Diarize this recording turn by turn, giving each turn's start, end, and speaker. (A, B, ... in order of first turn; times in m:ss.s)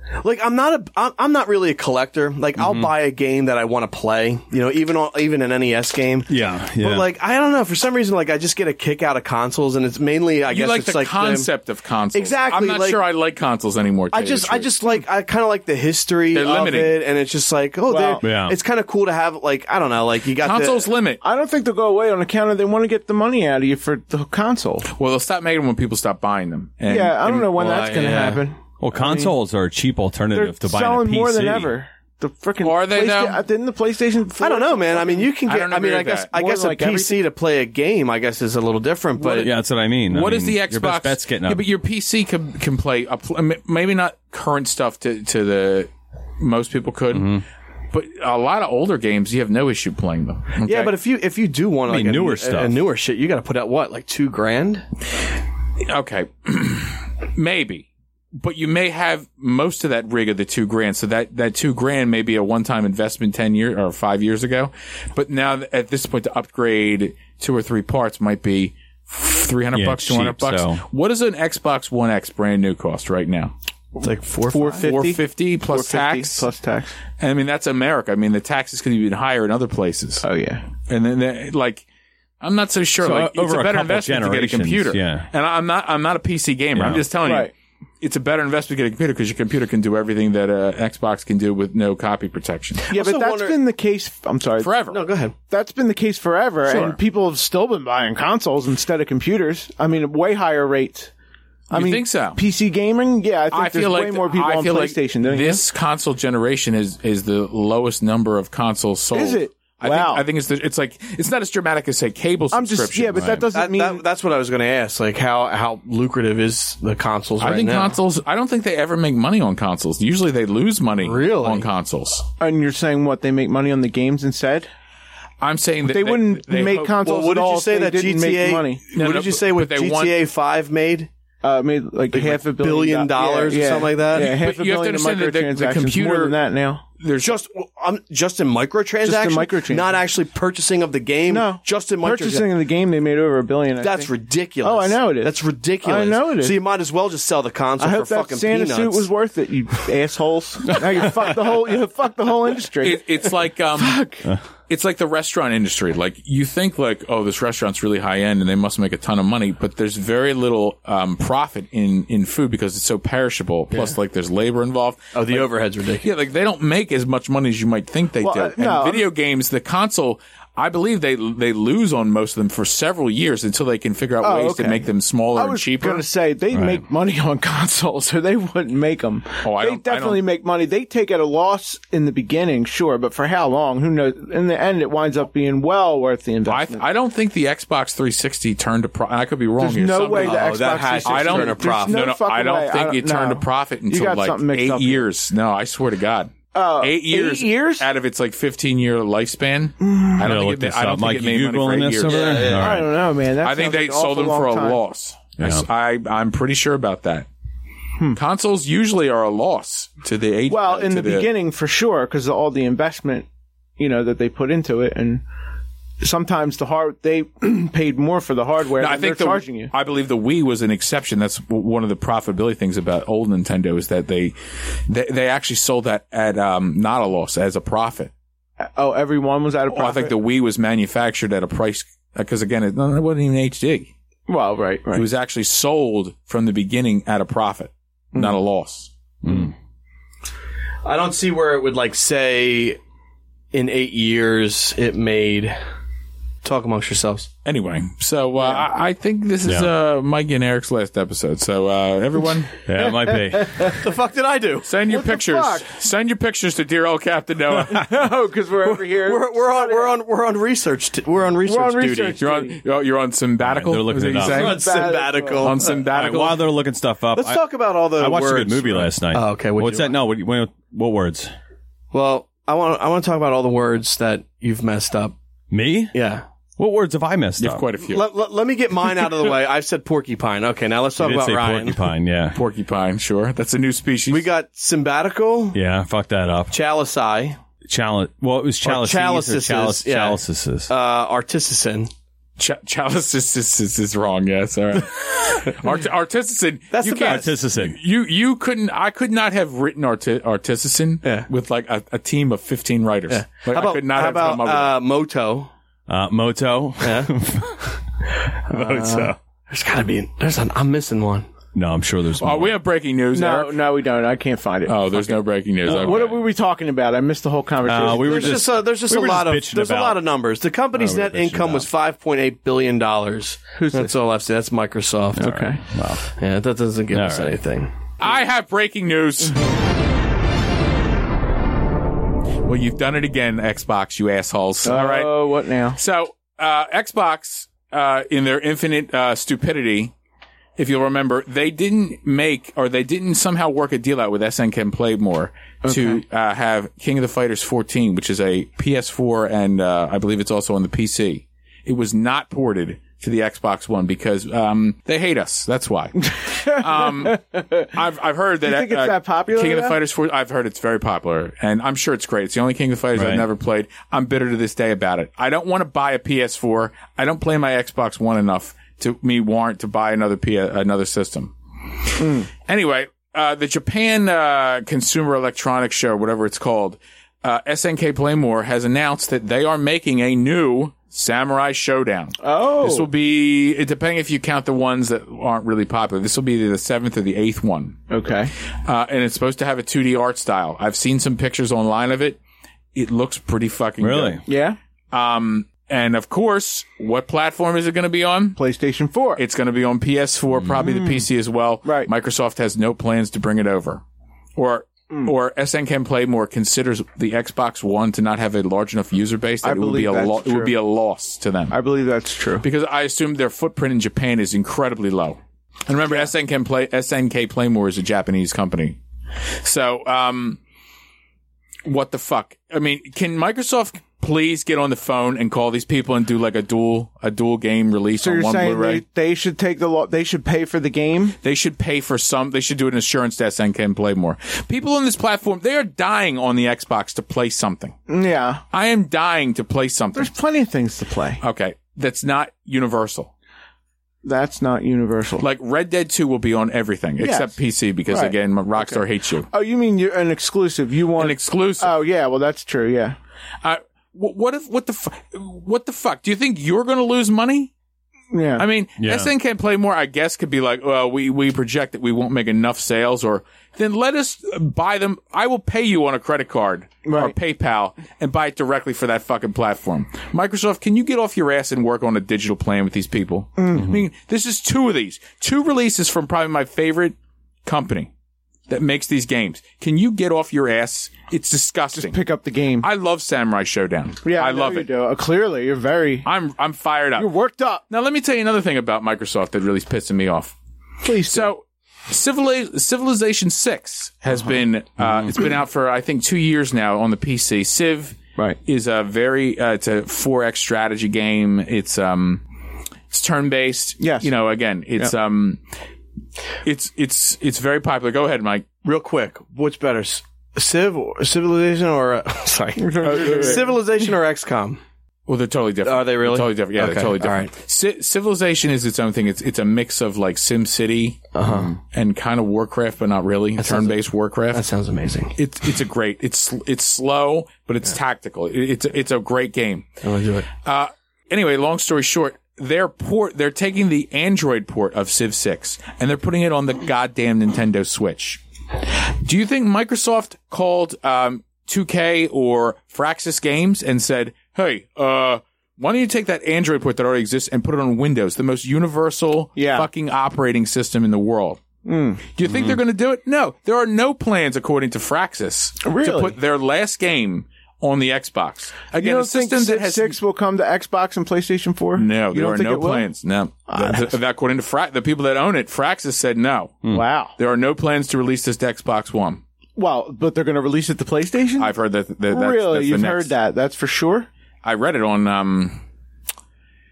0:00.2-0:11.5 A
0:02.6-0:02.9 B
0:06.3-0:07.1 B
0:10.5-0:14.7 C
0:12.1-0:13.0 A
0:14.1-0:20.9 A
0:16.3-0:17.0 C
0:17.9-0:18.2 D
0:18.2-0:18.6 B
0:20.4-0:21.2 C
0:21.2-0:24.9 D
0:24.9-0:28.1 C
0:26.9-0:29.4 D
0:27.6-0:28.4 A
0:28.8-0:31.7 B
0:30.3-0:35.3 D
0:32.6-0:33.4 C
0:34.4-0:39.5 A
0:35.4-0:36.3 C
0:36.3-0:37.2 D
0:39.2-0:39.5 C
0:39.3-0:41.6 B
0:40.1-0:51.0 C
0:47.1-0:47.4 B
0:50.6-0:54.8 A
0:51.9-0:52.8 B
0:55.8-1:13.5 C
1:09.7-1:10.8 B
1:14.0-1:17.0 D
1:14.0-1:14.9 A
1:14.7-1:16.5 C
1:17.2-1:20.2 C
1:20.2-1:20.6 D
1:20.9-1:21.8 C
1:22.4-1:32.8 C
1:23.0-1:25.3 B
1:26.7-1:27.0 B
1:27.2-1:27.5 D
1:32.9-1:33.6 A
1:32.9-1:34.7 D
1:34.6-1:35.0 C
1:34.9-1:35.3 A
1:35.5-1:41.1 D
1:36.6-1:37.0 C
1:41.7-1:42.4 C
1:41.7-1:45.6 D
1:43.5-1:53.5 C
1:49.1-1:50.2 D
1:52.5-1:54.0 D
1:53.5-1:58.0 A
1:57.4-2:02.2 C
2:01.0-2:01.6 A
2:02.4-2:04.7 D
2:05.4-2:07.0 C
2:05.8-2:08.8 D
2:07.0-2:11.1 A
2:09.0-2:10.2 C
2:11.4-2:16.8 D
2:12.1-2:14.3 A
2:14.1-2:16.4 C
2:17.0-2:17.3 C
2:17.2-2:22.5 A
2:19.0-2:19.9 D
2:21.3-2:24.1 D
2:23.8-2:29.1 A
2:24.6-2:26.6 D
2:27.8-2:34.3 D
2:32.8-2:34.0 C
2:34.7-2:45.5 C
2:45.1-2:46.1 A
2:46.0-2:56.0 C
2:48.2-2:49.1 D
2:54.2-3:06.8 D
2:56.5-2:56.8 B
2:59.4-3:00.2 C
3:06.5-3:22.4 C
3:09.6-3:15.0 D
3:10.1-3:12.0 A
3:16.5-3:17.9 D
3:19.8-3:20.1 D
3:20.2-3:22.9 B
3:22.0-3:22.8 A
3:22.4-3:24.8 D
3:23.4-3:27.3 C
3:25.4-3:25.6 B
3:28.1-3:31.3 C
3:30.5-3:33.3 D
3:33.8-3:35.2 D
3:36.0-3:39.7 D
3:38.8-3:44.3 C
3:44.9-3:48.1 C
3:48.6-3:50.2 D
3:49.7-3:53.9 C
3:54.3-3:55.1 D
3:54.9-3:58.9 C
3:59.2-3:59.5 B
4:00.8-4:02.8 A
4:03.5-4:05.6 A
4:06.4-4:07.3 A
4:07.4-4:12.6 C
4:12.6-4:13.7 B
4:12.8-4:13.8 D
4:13.7-4:14.7 A
4:14.6-4:18.0 C
4:14.9-4:15.7 D
4:17.7-4:20.0 D
4:18.9-4:22.2 A
4:21.4-4:22.6 D
4:22.2-4:24.6 C
4:23.4-4:24.6 B
4:24.2-4:25.8 A
4:24.3-4:25.5 D
4:25.4-4:26.4 C
4:25.9-4:31.3 B
4:27.1-4:30.0 A
4:31.9-4:35.1 A
4:35.5-4:35.9 B
4:35.9-4:36.2 A
4:36.6-4:37.7 B
4:37.4-4:38.1 C
4:37.8-4:41.8 A
4:41.0-4:42.4 B
4:42.3-4:44.3 C
4:44.1-4:45.6 A
4:45.5-4:46.6 B
4:46.5-4:47.4 A
4:47.7-4:50.7 B
4:48.6-4:51.9 A
4:52.4-5:04.8 C
4:56.7-4:57.3 A
4:57.0-4:57.8 B
5:03.1-5:05.5 A
5:05.9-5:09.2 B
5:06.8-5:07.1 A
5:08.5-5:11.3 A
5:11.5-5:12.6 B
5:12.2-5:13.6 C
5:13.1-5:18.4 D
5:14.6-5:16.2 C
5:15.6-5:16.0 B
5:17.6-5:20.0 B
5:17.8-5:25.4 A
5:20.7-5:21.7 B
5:23.6-5:24.0 D
5:25.1-5:26.0 B
5:25.2-5:25.6 D
5:26.1-5:27.7 A
5:26.9-5:27.4 B
5:28.0-5:29.4 C
5:32.4-5:39.9 C
5:34.6-5:35.8 D
5:40.6-5:57.2 C
5:45.6-5:46.0 D
5:56.2-5:57.7 D
5:57.7-6:11.3 C
5:58.4-5:59.8 D
6:03.0-6:03.3 B
6:11.9-6:27.8 C
6:12.0-6:12.3 D
6:22.2-6:22.9 D
6:27.9-6:28.3 D
6:28.6-6:32.2 C
6:32.7-6:34.2 C
6:33.8-6:34.2 B
6:34.3-6:34.6 D
6:34.9-6:38.4 C
6:38.4-6:39.2 D
6:39.2-6:43.8 C
6:40.6-6:41.0 D
6:41.6-6:41.9 D
6:44.4-6:51.5 C
6:49.4-6:50.5 D
6:51.5-6:52.4 D
6:52.4-6:58.8 C
6:59.4-7:00.4 C
7:01.6-7:08.8 C
7:08.0-7:11.2 D
7:11.2-7:17.7 C
7:17.9-7:18.4 D
7:18.5-7:20.1 C
7:20.0-7:21.2 D
7:21.2-7:23.1 C
7:24.0-7:25.3 D
7:25.2-7:29.3 C
7:27.0-7:27.3 D
7:27.9-7:33.0 D
7:31.0-7:31.8 C
7:33.4-7:37.5 C
7:38.1-7:38.4 D
7:38.4-7:57.9 C
7:38.8-7:39.1 B
7:46.8-7:47.1 D
7:53.4-7:53.7 D
7:58.5-8:02.0 C
8:01.7-8:02.7 D
8:02.6-8:04.7 C
8:04.0-8:06.1 D
8:06.0-8:07.1 C
8:07.0-8:07.6 D
8:07.7-8:10.3 C
8:10.8-8:11.3 D
8:11.0-8:22.2 C
8:22.9-8:25.4 C
8:23.8-8:24.1 D
8:26.4-8:28.5 C
8:28.6-8:34.6 A
8:32.6-8:33.5 D
8:32.8-8:33.5 C
8:35.0-8:44.4 C
8:35.6-8:37.3 A
8:41.1-8:41.5 A
8:43.4-8:43.8 A
8:44.3-8:45.2 A
8:45.2-8:49.7 C
8:49.8-8:50.3 A
8:50.4-8:58.2 C
8:59.0-9:11.4 C
9:09.4-9:09.7 D
9:11.6-9:12.0 D
9:12.1-9:20.0 C
9:12.3-9:12.6 B
9:15.6-9:16.2 D
9:18.7-9:22.8 D
9:21.8-9:26.6 C
9:23.5-9:24.0 D
9:26.6-9:27.1 D
9:27.2-9:29.2 C
9:29.6-9:31.5 D
9:31.4-9:33.1 C
9:32.1-9:34.1 D
9:34.4-9:35.6 C